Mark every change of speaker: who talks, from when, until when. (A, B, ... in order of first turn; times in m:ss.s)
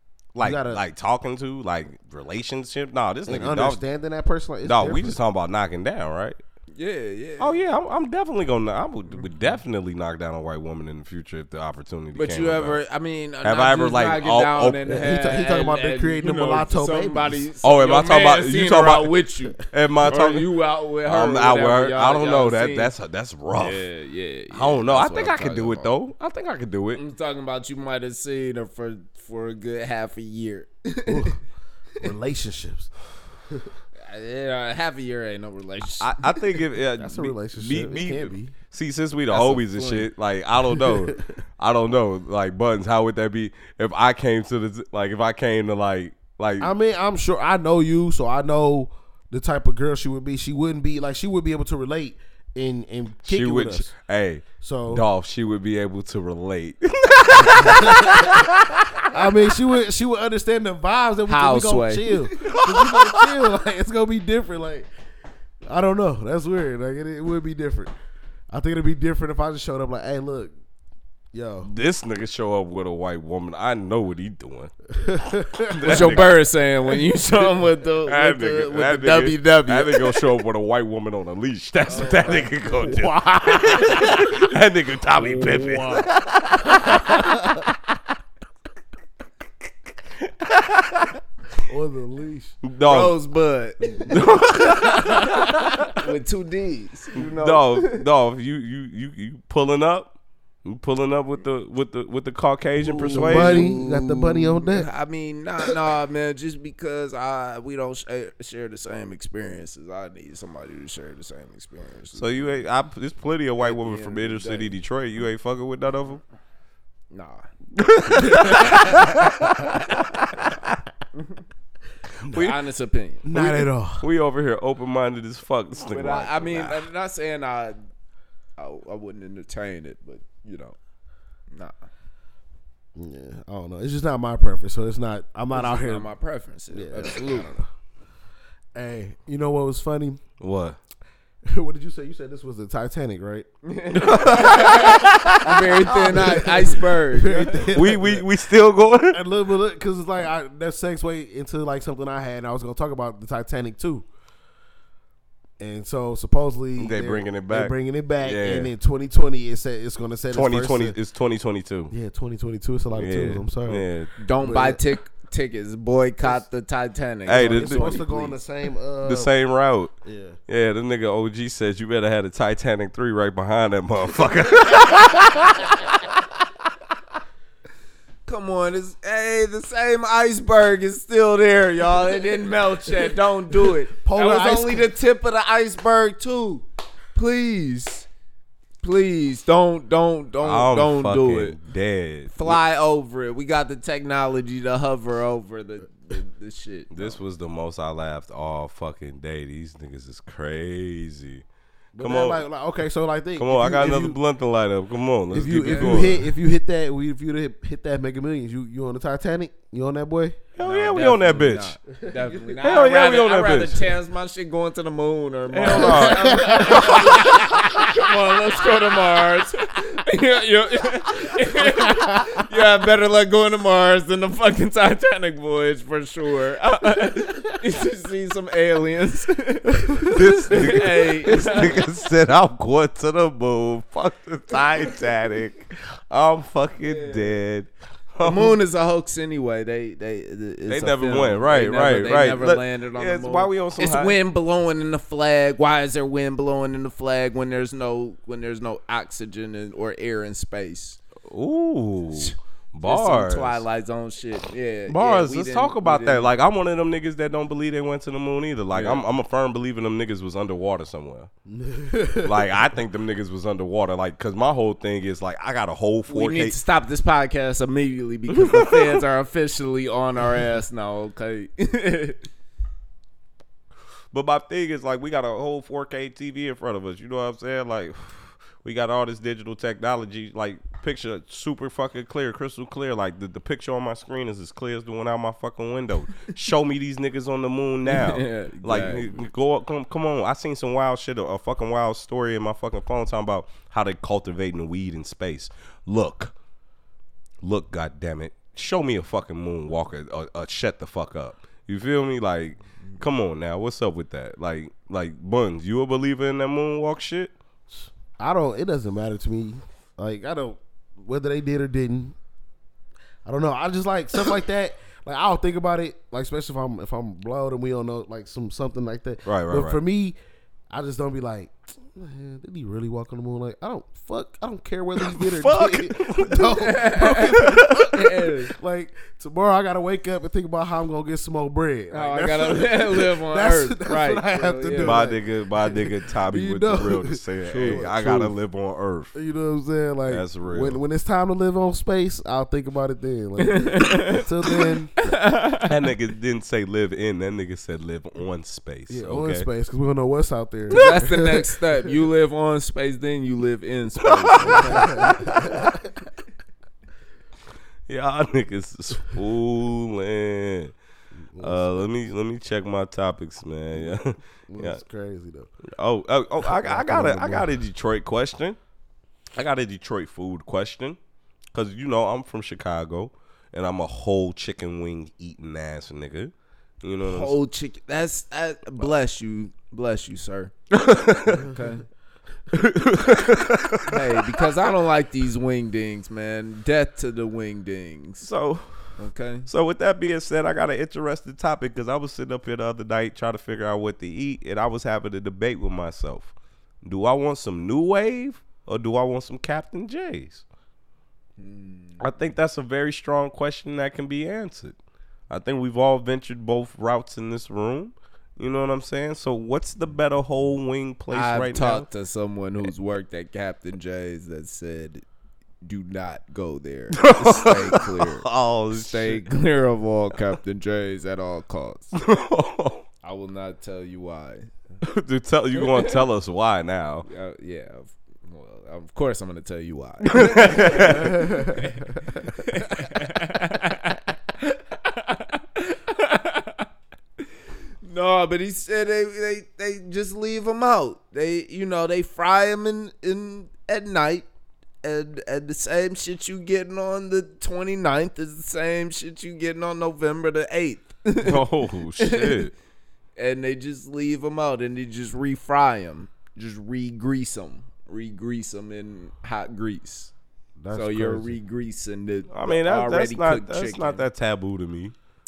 0:00.3-0:03.8 A
0:00.4-0:00.8 B
0:03.3-0:05.2 B
0:04.6-0:06.4 A
0:06.7-0:07.6 C
0:07.4-0:12.8 A
0:12.1-0:22.9 C
0:13.4-0:15.0 A
0:14.8-0:17.5 B
0:17.6-0:19.1 A
0:19.7-0:20.5 A
0:21.0-0:23.8 A
0:23.6-0:25.9 C
0:24.5-0:27.0 A
0:26.9-0:31.4 C
0:31.0-0:31.4 B
0:32.0-0:32.9 B
0:34.0-0:36.6 C
0:36.0-0:46.7 A
0:37.0-0:38.5 B
0:39.3-0:40.1 C
0:40.7-0:41.2 B
0:46.6-0:53.9 B
0:53.2-0:59.1 A
0:54.6-0:55.0 B
0:57.4-0:58.5 B
0:59.0-1:04.9 B
1:01.3-1:02.3 C
1:02.4-1:03.3 A
1:05.7-1:07.9 B
1:08.5-1:10.5 B
1:11.3-1:11.7 B
1:11.6-1:14.7 A
1:14.9-1:16.2 B
1:15.7-1:16.4 A
1:15.8-1:20.2 C
1:18.0-1:27.7 A
1:21.9-1:24.2 C
1:21.9-1:23.9 B
1:25.2-1:26.1 B
1:30.2-1:31.2 A
1:31.7-1:32.6 B
1:32.6-1:33.2 A
1:32.8-1:38.0 C
1:34.0-1:36.0 A
1:37.2-1:40.1 A
1:40.6-1:43.7 A
1:42.8-1:52.5 C
1:43.1-1:44.9 B
1:52.1-1:56.2 A
1:53.6-1:54.7 C
1:57.1-1:57.5 C
1:57.8-2:00.8 A
1:58.1-1:59.5 C
2:01.2-2:01.4 C
2:02.2-2:02.6 A
2:02.3-2:03.3 C
2:03.2-2:04.0 B
2:03.3-2:06.9 A
2:05.8-2:07.8 C
2:08.6-2:10.8 C
2:13.0-2:16.1 B
2:15.5-2:17.6 C
2:16.7-2:17.6 B
2:18.7-2:20.2 B
2:20.4-2:20.8 A
2:21.5-2:23.5 B
2:23.6-2:27.7 C
2:23.9-2:26.6 A
2:26.0-2:28.2 B
2:27.7-2:29.2 A
2:29.1-2:34.0 B
2:35.6-2:41.0 B
2:36.8-2:38.7 A
2:40.3-2:41.9 A
2:41.9-2:43.9 B
2:42.9-2:44.1 A
2:44.2-2:48.4 C
2:44.4-2:44.8 B
2:47.2-2:48.0 A
2:47.3-2:49.3 B
2:49.0-2:49.9 A
2:50.0-2:50.4 B
2:50.5-2:56.5 A
2:58.2-3:08.1 C
3:03.9-3:04.9 B
3:08.8-3:11.6 C
3:10.4-3:12.6 A
3:12.3-3:17.2 C
3:16.9-3:21.4 A
3:21.9-3:24.2 B
3:22.0-3:22.4 A
3:23.4-3:26.2 A
3:25.3-3:30.4 B
3:25.5-3:26.2 C
3:30.6-3:31.8 A
3:30.6-3:51.8 C
3:32.0-3:32.6 B
3:32.6-3:33.8 A
3:35.5-3:37.4 A
3:35.6-3:37.9 B
3:50.0-3:58.6 A
3:56.8-3:57.4 C
3:58.2-4:11.0 C
4:00.7-4:04.2 A
4:11.3-4:13.6 A
4:12.1-4:16.3 C
4:14.9-4:21.3 A
4:18.7-4:19.0 C
4:21.5-4:22.5 B
4:22.2-4:26.6 A
4:26.1-4:32.2 C
4:28.3-4:29.0 A
4:34.1-4:56.3 A
4:47.8-4:49.3 C
4:57.4-5:07.3 A
5:08.2-5:12.2 B
5:13.2-5:20.2 B
5:19.2-5:19.8 A
5:20.7-5:38.4 B
5:25.0-5:26.7 A
5:26.5-5:28.5 C
5:27.4-5:27.9 A
5:31.9-5:35.1 C
5:34.8-5:39.1 A
5:37.5-5:37.8 C
5:39.1-5:44.9 B
5:40.1-5:40.8 A
5:43.4-5:45.7 C
5:45.6-5:49.5 A
5:48.9-5:51.5 B
5:50.7-5:55.2 C
5:50.7-5:51.1 A
5:54.0-5:55.8 A
5:54.4-5:55.8 B
5:57.9-6:00.7 A
6:01.3-6:01.9 B
6:01.4-6:04.8 A
6:04.5-6:05.5 B
6:05.7-6:08.6 A
6:06.4-6:07.5 B
6:09.4-6:11.0 A
6:11.5-6:17.4 A
6:17.0-6:20.5 C
6:20.7-6:21.5 A
6:21.2-6:21.8 C
6:22.5-6:24.5 A
6:23.8-6:28.3 C
6:28.2-6:28.7 A
6:29.0-6:29.5 C
6:29.4-6:40.4 A
6:41.4-6:42.0 C
6:42.0-6:44.8 A
6:45.3-6:51.9 A
6:51.1-6:55.0 C
6:55.6-7:01.9 C
6:56.9-6:59.2 A
7:01.9-7:02.8 A
7:03.0-7:04.5 C
7:04.8-7:07.0 A
7:05.5-7:06.0 C
7:07.0-7:16.6 C
7:10.0-7:11.3 A
7:11.0-7:11.6 B
7:17.8-7:24.2 C
7:24.8-7:31.5 C
7:31.2-7:32.5 A
7:32.0-7:32.5 C
7:33.2-7:40.1 C
7:40.6-7:41.4 B
7:40.7-7:44.0 C
7:42.3-7:44.9 A